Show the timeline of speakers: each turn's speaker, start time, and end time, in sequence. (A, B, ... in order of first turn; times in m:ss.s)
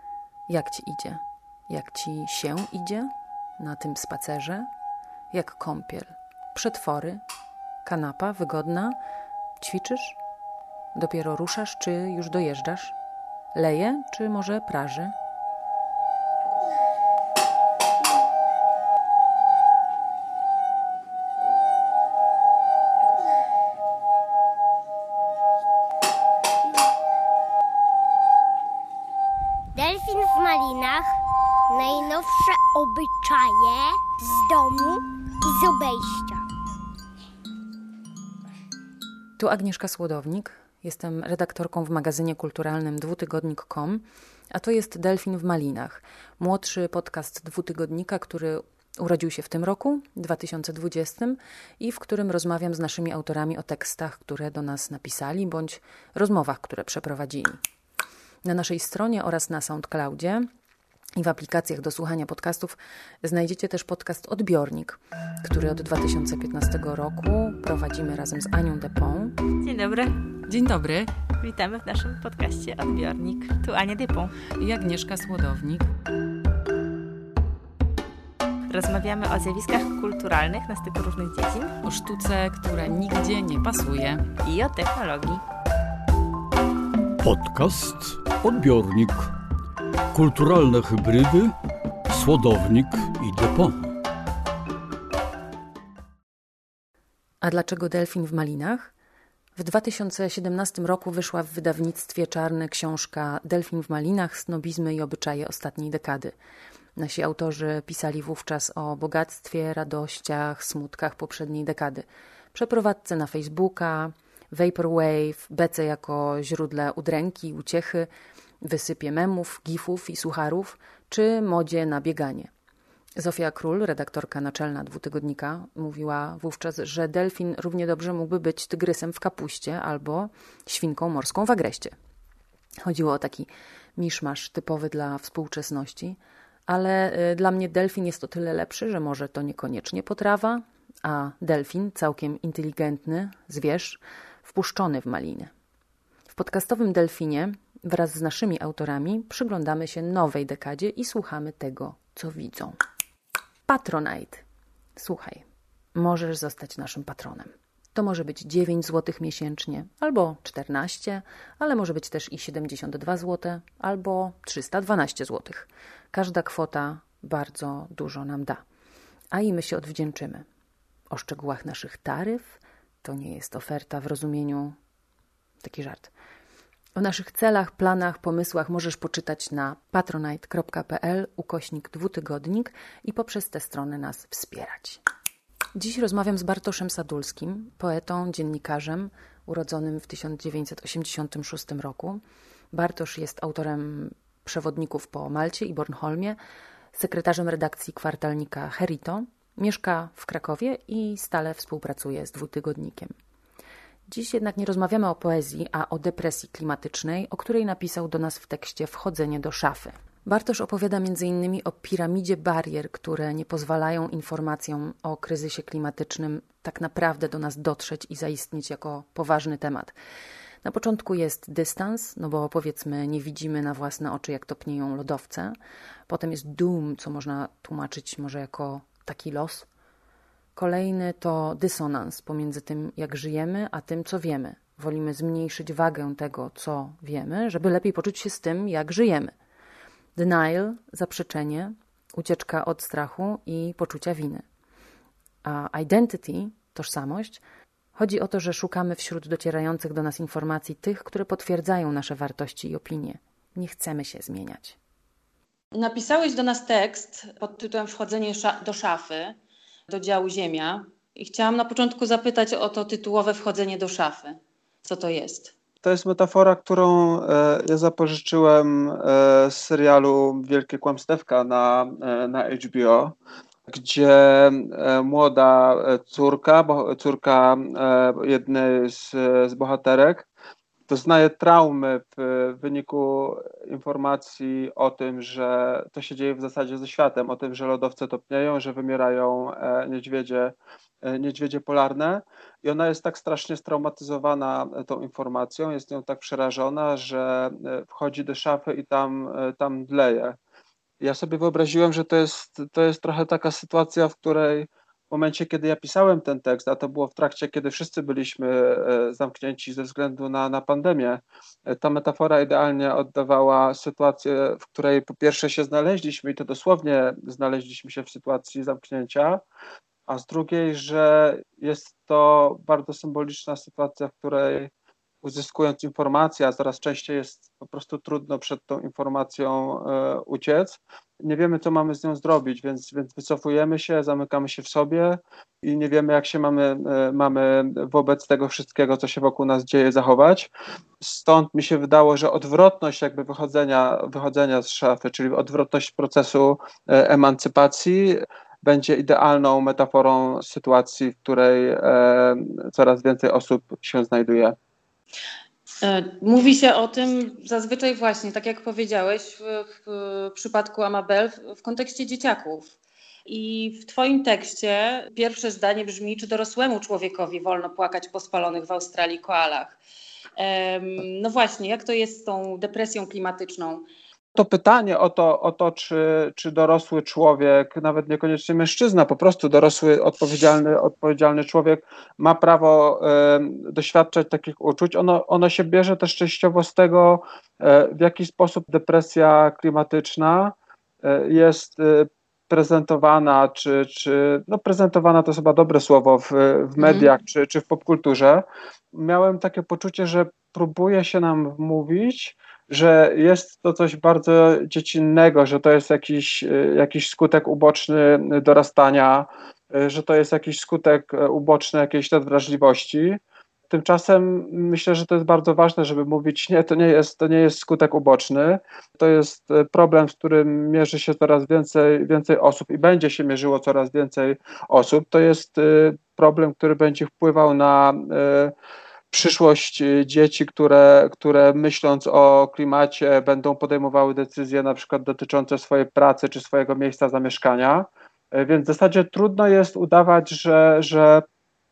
0:00.5-0:04.7 A
0:05.3-0:07.2 A
0:07.8-0:09.0 A
0:09.6-0:10.2 A
0:11.0-0:13.0 A
0:13.5-0:15.1 A
0:29.7-0:31.2 B
0:31.7-0:36.4 B
0:39.4-0:57.6 A
0:58.4-1:00.5 A
1:01.2-1:09.3 A
1:09.6-1:10.2 C
1:10.5-1:11.1 A
1:11.4-1:14.4 C
1:14.5-1:15.9 A
1:18.7-1:21.7 C
1:21.8-1:24.2 A
1:24.4-1:25.4 C
1:27.2-1:29.3 D
1:30.1-1:31.6 D
1:32.1-1:33.9 D
1:37.4-1:38.9 A
1:39.6-1:46.3 A
1:47.0-1:58.1 A
1:58.6-2:02.5 A
2:03.2-2:12.0 A
2:12.8-2:25.5 A
2:26.3-2:32.8 A
2:33.7-2:34.4 A
2:35.0-2:35.4 A
2:36.0-2:48.6 A
2:49.3-2:50.4 A
2:51.1-2:54.8 A
2:55.6-2:56.1 A
2:57.0-3:05.0 A
3:05.7-3:12.2 A
3:12.7-3:16.4 A
3:16.9-3:23.1 A
3:24.1-3:39.9 A
3:40.6-3:45.6 A
3:46.1-3:49.7 A
3:50.6-3:59.3 A
4:00.2-4:04.4 A
4:05.4-4:07.4 A
4:08.0-4:14.8 A
4:15.7-4:19.4 E
4:19.9-4:25.5 E
4:25.8-4:33.2 F
4:33.7-4:40.3 F
4:40.9-5:00.4 F
5:01.0-5:19.4 F
5:20.1-5:24.7 F
5:25.2-5:54.6 F
5:55.8-6:02.7 E
6:03.2-6:09.8 E
6:10.4-6:13.9 E
6:14.4-7:08.5 F
6:36.8-6:37.1 E
7:09.1-7:21.2 F